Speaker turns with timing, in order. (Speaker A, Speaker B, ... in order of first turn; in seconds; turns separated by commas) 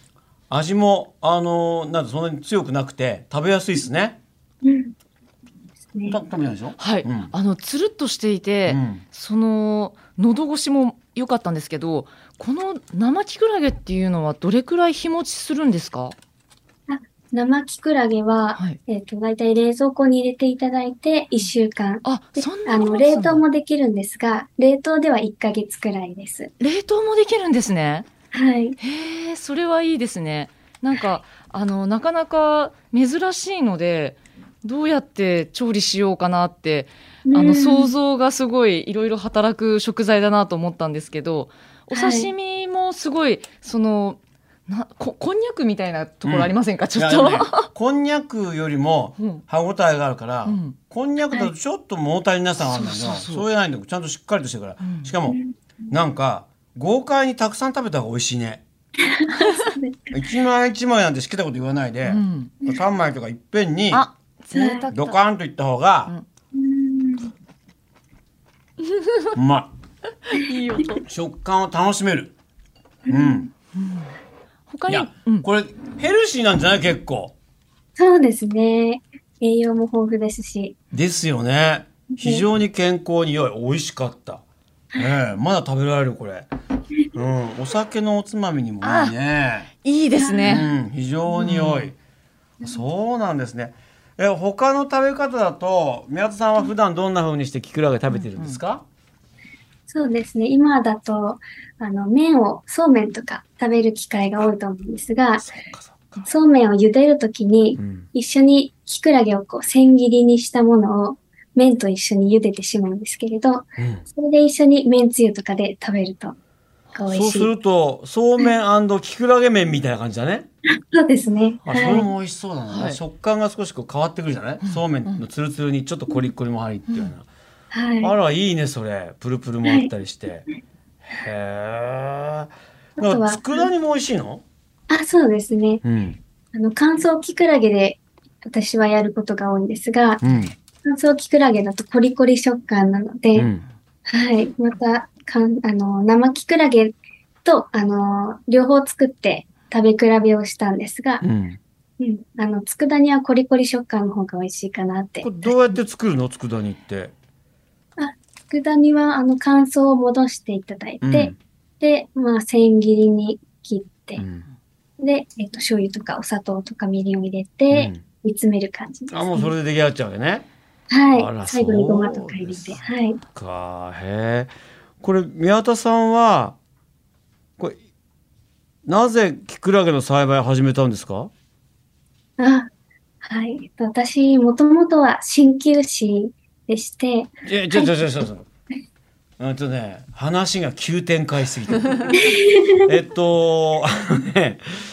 Speaker A: 0.5-4.2, Speaker B: 4.6-4.9, Speaker B: 5.9-6.2, Speaker A: 6.1-7.3, Speaker C: 6.8-16.1, Speaker A: 8.7-9.0, Speaker B: 16.9-26.5, Speaker C: 22.0-23.4, Speaker C: 26.6-28.1, Speaker B: 28.3-28.8, Speaker C: 28.8-47.7, Speaker B: 37.3-37.9, Speaker B: 41.9-42.3, Speaker A: 46.2-55.4, Speaker C: 49.2-49.4, Speaker C: 50.5-50.8, Speaker C: 52.6-53.5, Speaker C: 54.8-55.1, Speaker B: 55.3-55.9, Speaker A: 55.9-58.6, Speaker B: 59.0-60.1, Speaker C: 59.3-59.8, Speaker A: 60.1-64.1, Speaker C: 62.0-62.5, Speaker C: 63.9-65.2, Speaker B: 64.5-64.8, Speaker A: 64.9-66.1, Speaker B: 66.5-67.3, Speaker C: 69.0-69.3, Speaker A: 69.3-69.7, Speaker C: 70.3-71.0, Speaker A: 70.9-72.3, Speaker B: 73.1-73.5, Speaker A: 73.1-73.5, Speaker C: 73.7-74.1, Speaker C: 74.7-75.5, Speaker A: 74.9-77.3, Speaker B: 78.0-80.8, Speaker A: 80.9-84.4, Speaker B: 82.1-82.5, Speaker A: 85.0-86.5, Speaker A: 87.1-89.7, Speaker C: 88.8-89.2, Speaker C: 89.8-90.7, Speaker B: 90.2-90.7, Speaker A: 90.4-92.0, Speaker C: 91.3-91.9, Speaker A: 92.6-98.8, Speaker C: 98.1-98.6, Speaker B: 99.9-105.5, Speaker A: 105.4-106.3, Speaker B: 106.2-116.3, Speaker A: 107.8-108.1, Speaker A: 113.8-114.0, Speaker B: 116.9-117.5, Speaker A: 117.1-120.5, Speaker B: 120.7-122.1, Speaker A: 121.6-127.3, Speaker C: 122.7-123.0, Speaker C: 124.6-125.2, Speaker B: 127.7-128.1, Speaker A: 128.0-130.4, Speaker B: 129.6-129.9, Speaker A: 131.0-134.4, Speaker B: 133.0-133.7, Speaker B: 134.9-135.8, Speaker A: 135.8-136.2, Speaker B: 136.5-140.2, Speaker A: 140.2-140.5, Speaker B: 140.8-143.5, Speaker A: 143.3-143.6, Speaker B: 144.1-151.2, Speaker A: 151.2-151.6, Speaker B: 152.0-155.8, Speaker A: 155.2-157.1, Speaker B: 158.0-164.2, Speaker A: 161.0-161.3, Speaker A: 164.2-164.4, Speaker B: 165.0-169.5, Speaker A: 167.7-168.0, Speaker A: 169.1-170.5, Speaker B: 170.9-173.2, Speaker A: 171.1-172.8, Speaker A: 173.3-176.6, Speaker A: 178.8-181.3, Speaker B: 182.4-182.7, Speaker B: 183.2-188.0, Speaker A: 187.4-188.4, Speaker A: 189.4-192.1, Speaker B: 192.2-192.8, Speaker A: 192.9-194.7